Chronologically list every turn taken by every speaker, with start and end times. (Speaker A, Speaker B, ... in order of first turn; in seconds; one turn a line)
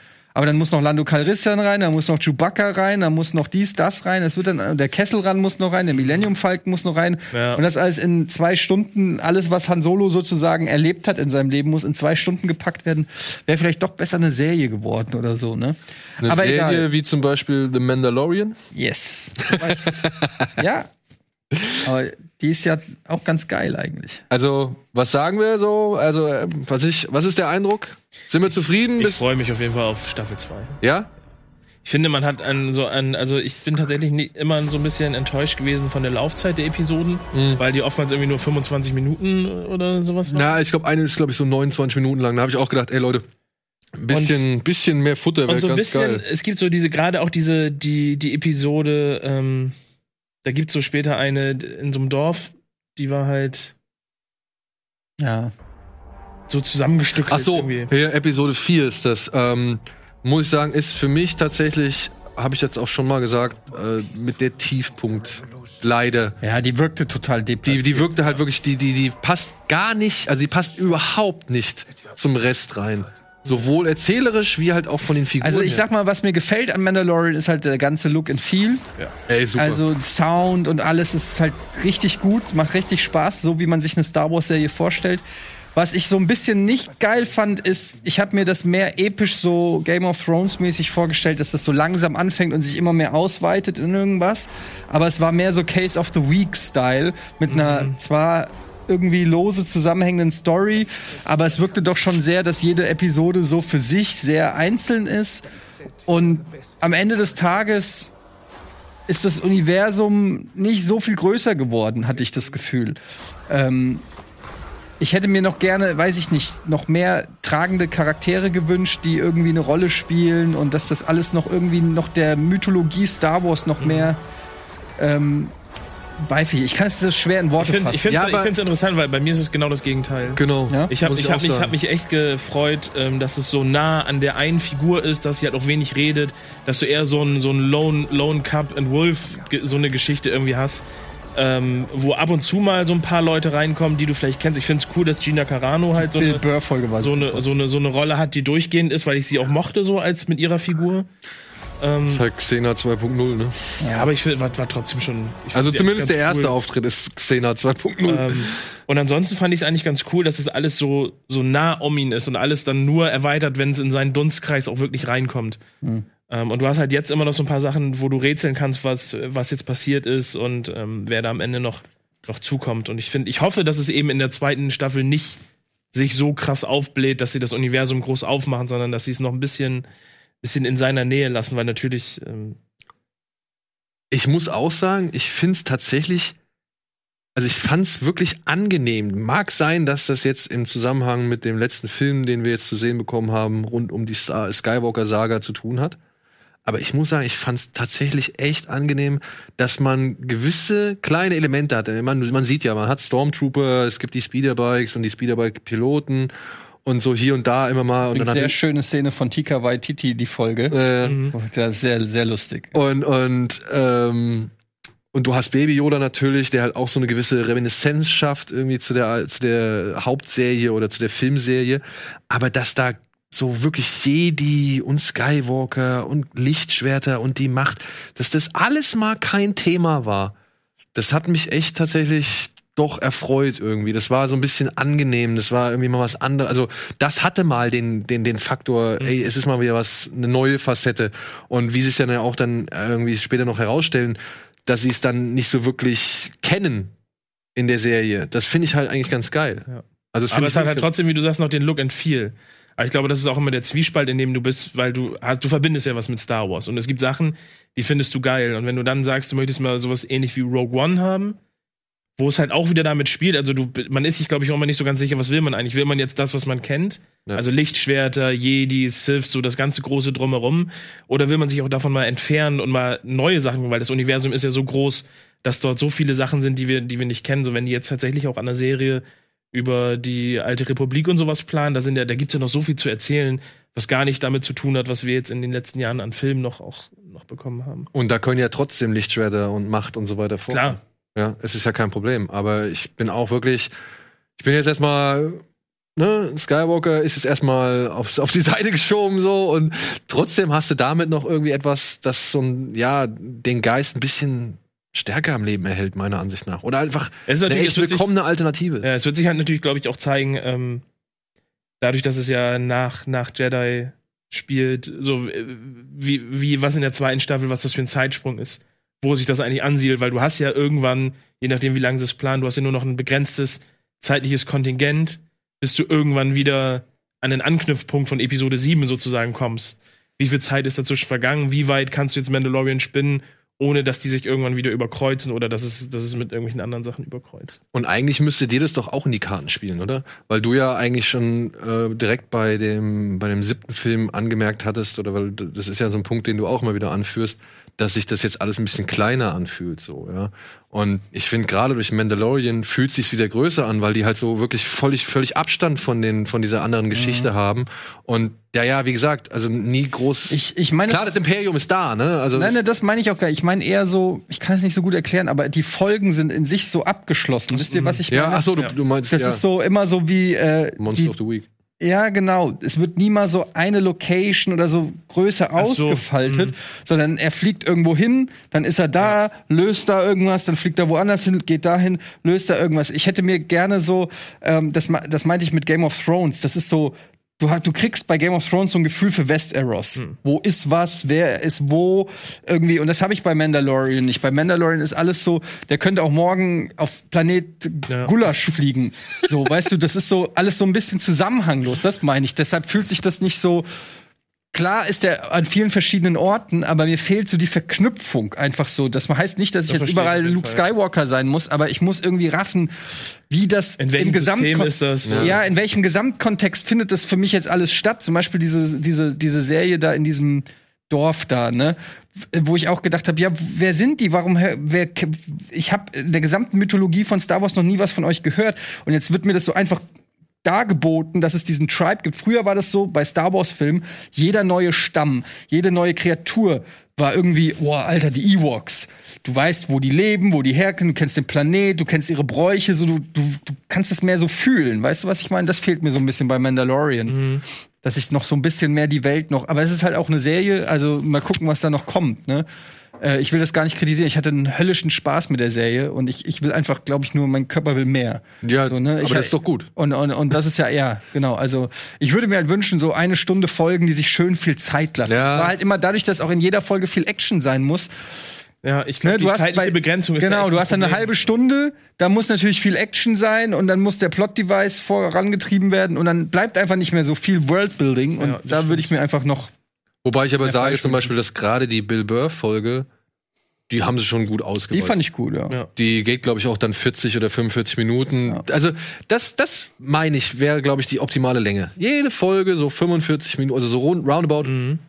Speaker A: 0.3-16.9
Speaker B: 6.0-6.2
Speaker B: 7.3-7.6
Speaker C: 16.2-18.6
Speaker A: 18.7-20.0
Speaker C: 19.9-20.5
Speaker A: 20.6-20.9
Speaker A: 21.8-24.2
Speaker C: 24.3-29.2
Speaker B: 29.0-30.8
Speaker C: 30.8-31.1
Speaker B: 31.8-40.5
Speaker C: 37.3-37.6
Speaker C: 40.3-43.2
Speaker C: 44.0-46.2
Speaker B: 44.1-44.4
Speaker B: 45.5-49.7
Speaker B: 50.4-53.7
Speaker A: 55.2-55.5
Speaker B: 56.5-57.9
Speaker C: 57.3-66.4
Speaker A: 66.4-68.1
Speaker C: 67.7-75.8
Speaker A: 75.4-78.8
Speaker C: 79.3-79.8
Speaker A: 79.6-85.2
Speaker A: 85.7-105.5
Speaker B: 97.5-98.0
Speaker A: 106.0-108.1
Speaker A: 109.1-114.0
Speaker A: 115.0-124.2
Speaker B: 123.8-124.1
Speaker A: 125.0-125.5
Speaker A: 126.2-128.1
Speaker B: 127.6-140.8
Speaker C: 128.1-128.5
Speaker C: 130.3-131.7
Speaker B: 141.3-146.4
Speaker A: 146.0-147.4
Speaker B: 147.0-151.1
Speaker B: 151.8-152.2
Speaker C: 152.1-153.6
Speaker A: 153.8-154.1
Speaker B: 153.9-156.5
Speaker C: 155.5-158.6
Speaker B: 158.1-165.6
Speaker A: 165.8-166.1
Speaker B: 166.3-175.4
Speaker B: 175.9-179.8
Speaker B: 180.4-182.6
Speaker C: 184.1-186.3
Speaker C: 187.3-196.0
Speaker C: 196.6-206.3
Speaker C: 206.8-208.6
Speaker A: 208.1-210.8
Speaker C: 210.7-211.2
Speaker B: 211.0-211.3
Speaker A: 211.3-212.7
Speaker C: 212.7-214.5
Speaker C: 215.1-230.3
Speaker C: 230.9-246.9
Speaker B: 239.0-239.2
Speaker C: 247.6-250.9
Speaker B: 249.7-261.4
Speaker B: 262.2-287.9
Speaker C: 287.9-293.7
Speaker B: 290.5-290.8
Speaker C: 294.4-295.4
Speaker C: 296.0-308.9
Speaker B: 307.3-308.1
Speaker B: 308.8-310.8
Speaker B: 311.8-337.6
Speaker C: 337.7-362.6
Speaker A: 356.9-357.3
Speaker A: 360.3-361.1
Speaker A: 362.3-371.1
Speaker B: 367.5-368.0
Speaker C: 368.1-369.4
Speaker C: 370.8-371.4
Speaker A: 371.8-403.7
Speaker B: 375.6-376.5
Speaker A: 404.5-429.8
Speaker B: 409.7-410.6
Speaker B: 413.8-415.4
Speaker C: 415.1-415.3
Speaker A: 430.4-447.2
Speaker B: 447.1-447.4
Speaker A: 447.8-452.5
Speaker A: 453.0-468.1
Speaker C: 458.4-459.7
Speaker C: 465.1-465.5
Speaker B: 468.6-471.2
Speaker A: 469.0-479.5
Speaker B: 478.2-478.9
Speaker C: 480.0-482.9
Speaker A: 480.4-481.1
Speaker C: 483.7-485.0
Speaker A: 484.7-485.6
Speaker C: 485.8-494.5
Speaker B: 494.4-494.8